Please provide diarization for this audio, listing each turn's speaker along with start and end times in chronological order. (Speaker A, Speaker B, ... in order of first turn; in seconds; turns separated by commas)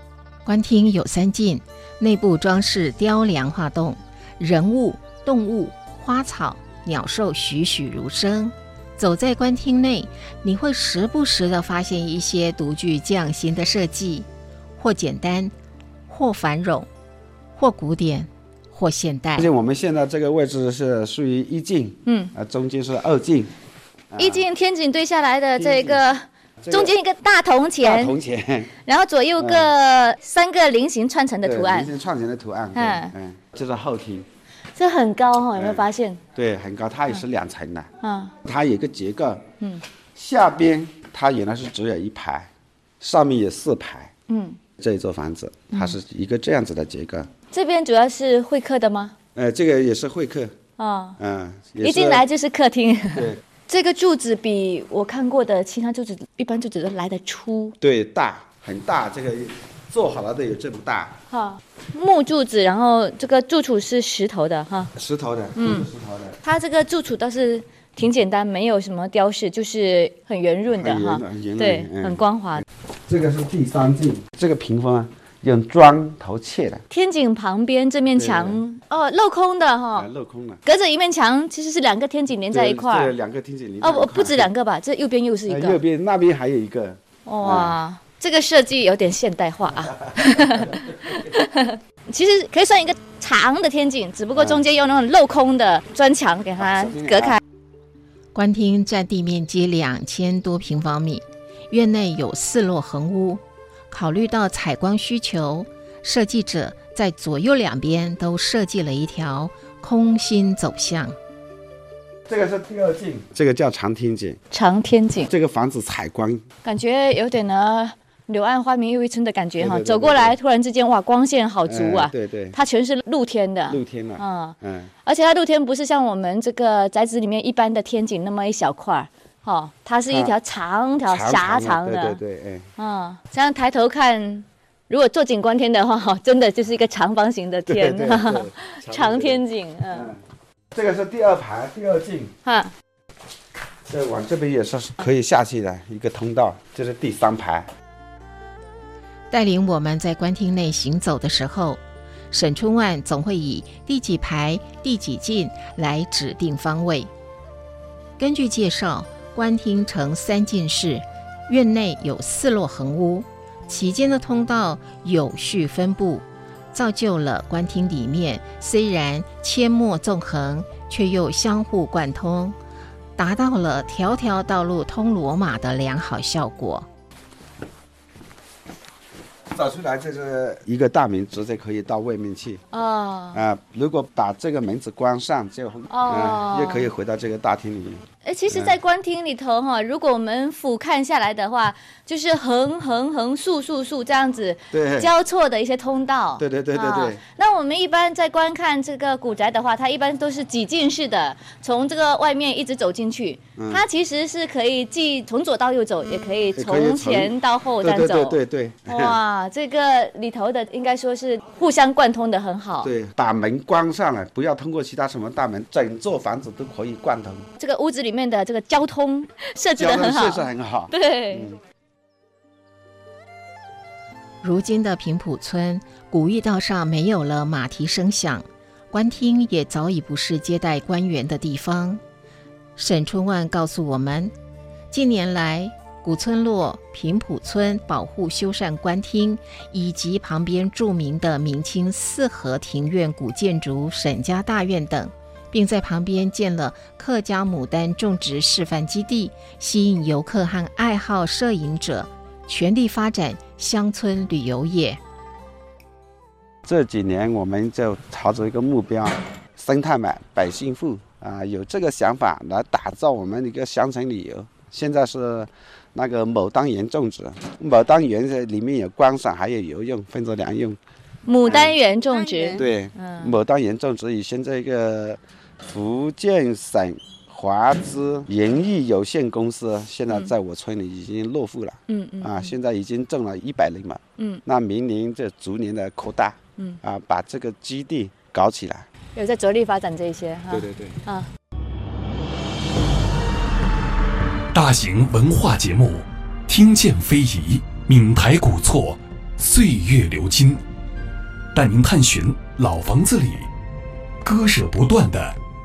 Speaker A: 0.4-15.5, Speaker A: 16.1-16.9, Speaker A: 17.5-19.5, Speaker B: 19.4-23.5, Speaker C: 22.1-22.3, Speaker B: 24.1-24.4, Speaker C: 24.2-28.1, Speaker B: 25.6-26.0, Speaker B: 26.6-26.9, Speaker B: 27.8-28.7, Speaker C: 28.8-31.9, Speaker B: 29.4-29.7, Speaker B: 31.4-34.3, Speaker C: 32.7-33.1, Speaker C: 34.7-36.2, Speaker B: 35.5-37.9, Speaker C: 38.0-38.3, Speaker B: 38.4-39.4, Speaker B: 40.1-42.5, Speaker B: 43.0-44.1, Speaker C: 44.3-44.6, Speaker B: 44.8-47.3, Speaker C: 47.5-49.1, Speaker B: 49.3-50.5, Speaker C: 50.8-51.2, Speaker B: 51.2-52.2, Speaker C: 51.8-57.8, Speaker B: 57.8-61.1, Speaker C: 61.3-64.9, Speaker B: 65.0-66.4, Speaker C: 65.5-65.9, Speaker C: 66.4-72.6, Speaker B: 70.7-72.2, Speaker B: 73.1-76.8, Speaker C: 76.9-80.1, Speaker B: 78.1-78.6, Speaker B: 80.0-80.6, Speaker C: 80.6-83.1, Speaker B: 82.5-84.5, Speaker C: 83.8-85.8, Speaker B: 85.5-87.8, Speaker C: 87.2-97.4, Speaker B: 94.3-94.6, Speaker B: 96.6-97.4, Speaker A: 98.3-111.1, Speaker B: 112.3-114.4, Speaker C: 114.5-115.3, Speaker B: 115.3-116.4, Speaker C: 116.6-132.2, Speaker B: 119.6-120.3, Speaker B: 121.6-122.5, Speaker B: 123.7-124.9, Speaker B: 131.0-132.7, Speaker C: 132.8-140.1, Speaker B: 137.7-140.2, Speaker B: 140.7-142.3, Speaker C: 142.4-142.7, Speaker B: 143.9-147.7, Speaker A: 149.3-151.8, Speaker A: 152.3-157.1, Speaker A: 158.2-172.6, Speaker A: 173.2-176.8, Speaker B: 179.5-182.6, Speaker C: 182.7-183.4, Speaker B: 183.3-188.8, Speaker C: 185.9-186.9, Speaker C: 188.2-212.9, Speaker B: 194.7-195.1, Speaker B: 196.4-197.2, Speaker B: 203.6-203.8, Speaker B: 206.5-209.2, Speaker B: 212.8-217.4, Speaker C: 217.6-221.5, Speaker B: 219.7-221.5, Speaker A: 224.4-232.0, Speaker A: 232.8-234.3, Speaker A: 234.9-255.0, Speaker B: 256.6-270.8, Speaker C: 271.2-273.3, Speaker B: 271.5-271.8, Speaker B: 272.6-288.9, Speaker C: 281.9-282.5, Speaker C: 284.2-284.4, Speaker C: 289.1-291.3, Speaker B: 290.5-291.0, Speaker D: 294.5-300.6, Speaker D: 301.5-303.5, Speaker D: 304.2-305.4